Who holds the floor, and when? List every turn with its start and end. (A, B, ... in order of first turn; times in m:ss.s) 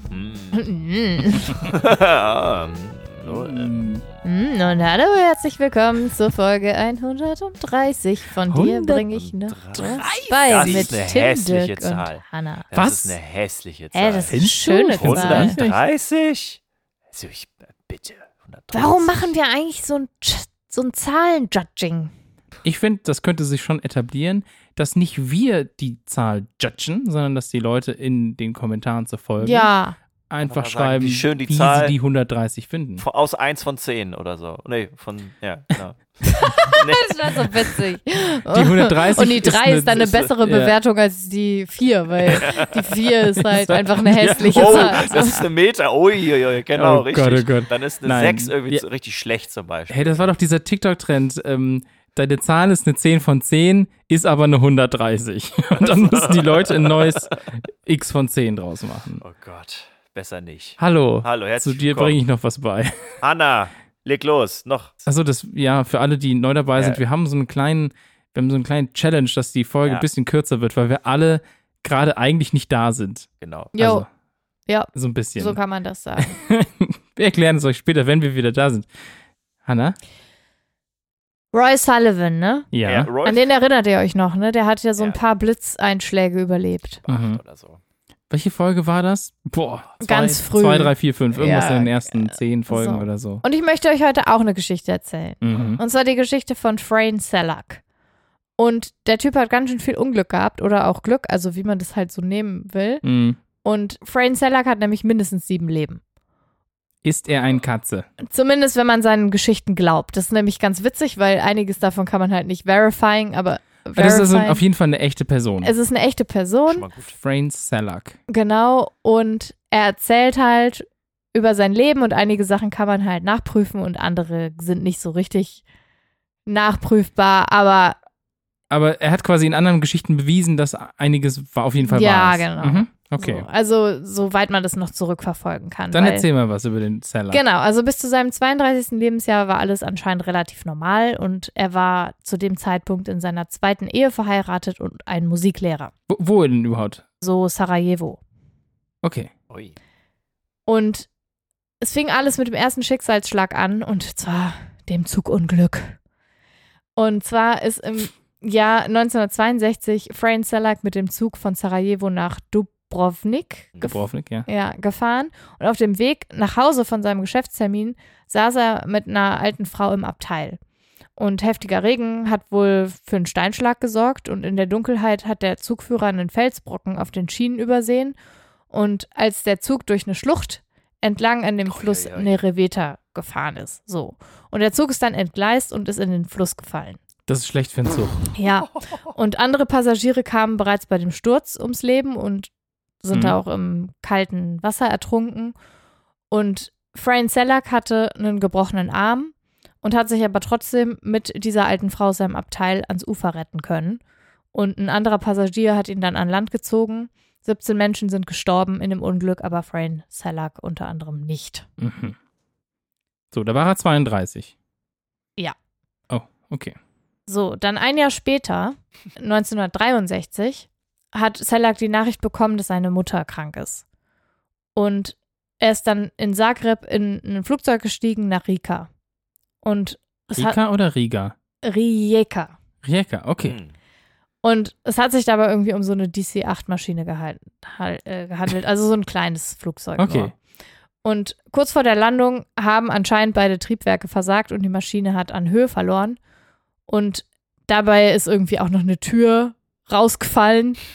0:00.1-0:00.6 A
0:00.5-0:01.7 B
0:01.5-0:03.8 A
0:03.2-0:04.0 C
0:04.2-0:12.6 B
0:08.5-0:09.0 C
0:09.1-0:14.4 A
0:09.8-0:10.9 C
0:12.7-0:13.2 C
0:13.9-0:15.6 B
0:14.3-0:15.8 C
0:14.9-0:16.6 A
0:17.1-0:19.3 A
0:18.7-0:22.1 B
0:22.6-0:29.7 C
0:29.4-0:30.0 B
0:30.3-0:33.0 C
0:30.4-0:32.0 A
0:33.0-0:37.8 A
0:36.2-0:45.4 B
0:38.5-0:40.7 C
0:42.3-0:42.7 A
0:43.4-0:45.4 C
0:44.5-0:50.3 A
0:46.7-0:48.8 C
0:49.9-0:59.2 C
0:55.8-0:57.3 A
0:59.2-1:02.2 A
1:00.8-1:03.2 C
1:03.2-1:05.0 A
1:05.0-1:14.1 C
1:06.8-1:07.0 A
1:13.4-1:13.7 A
1:13.7-1:14.0 B
1:14.7-1:16.4 B
1:14.9-1:15.6 C
1:16.3-1:18.9 C
1:19.6-1:20.0 C
1:21.5-1:22.7 B
1:22.7-1:23.1 C
1:22.8-1:23.5 A
1:23.2-1:27.0 B
1:27.0-1:27.8 A
1:27.1-1:27.4 C
1:28.3-1:33.4 C
1:30.0-1:37.8 B
1:35.4-1:35.8 C
1:38.6-1:43.0 B
1:43.0-1:43.4 C
1:43.6-1:46.0 B
1:47.0-1:48.1 C
1:48.2-1:54.6 B
1:53.9-1:55.7 C
1:55.6-1:56.9 B
1:56.7-1:57.1 A
1:57.1-1:58.2 C
1:58.3-2:05.6 B
2:06.4-2:08.0 B
2:08.7-2:13.4 C
2:11.8-2:16.3 B
2:15.9-2:17.4 C
2:17.3-2:25.9 B
2:26.1-2:27.0 C
2:27.2-2:28.2 B
2:29.0-2:29.3 C
2:30.7-2:31.1 B
2:31.8-2:36.0 B
2:37.0-2:50.6 B
2:43.8-2:44.4 C
2:51.2-2:58.2 B
2:58.7-3:07.0 B
3:01.7-3:02.4 A
3:07.3-3:08.3 C
3:08.3-3:12.5 B
3:13.0-3:15.6 B
3:13.1-3:13.4 C
3:16.3-3:24.0 B
3:24.5-3:31.6 B
3:31.8-3:32.2 C
3:33.3-3:34.5 C
3:36.1-3:36.8 C
3:37.3-3:43.8 B
3:44.8-3:48.9 B
3:49.6-3:50.6 B
3:50.4-3:51.3 C
3:51.6-3:52.6 B
3:52.8-3:53.6 C
3:53.4-3:53.7 A
3:54.4-4:00.3 B
4:00.0-4:00.3 C
4:01.0-4:06.2 B
4:06.9-4:10.8 B